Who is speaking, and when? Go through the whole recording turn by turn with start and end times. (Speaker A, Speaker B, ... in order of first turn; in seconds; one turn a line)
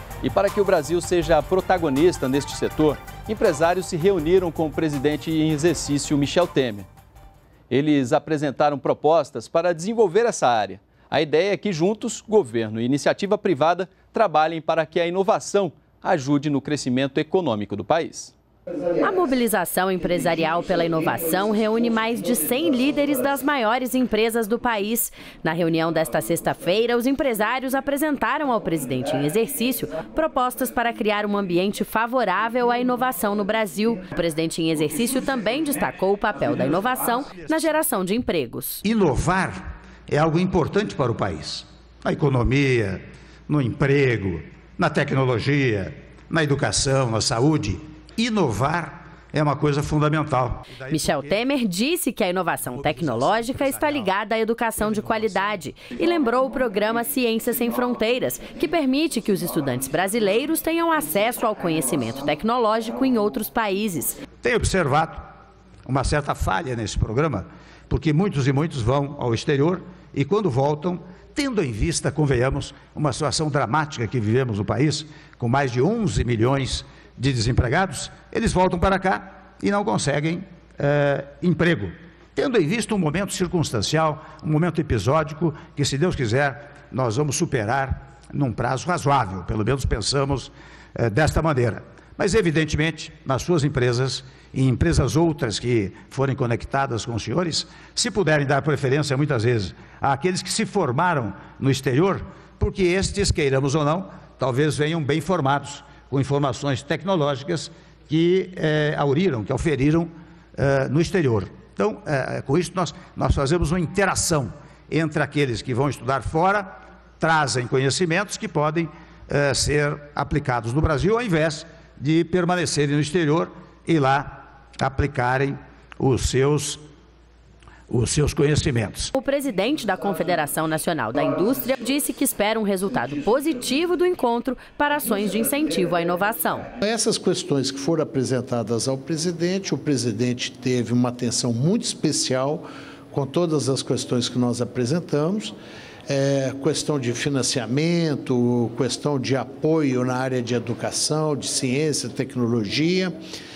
Speaker A: 0.2-6.9
Speaker A: 7.7-18.3
Speaker B: 19.0-38.8
Speaker C: 37.4-37.7
Speaker C: 38.8-51.4
Speaker B: 50.9-64.2
Speaker C: 52.7-54.1
Speaker C: 64.4-65.2
Speaker C: 65.9-126.8
Speaker C: 127.9-129.1
Speaker B: 129.1-136.7
Speaker D: 136.8-145.5
Speaker D: 146.1-153.2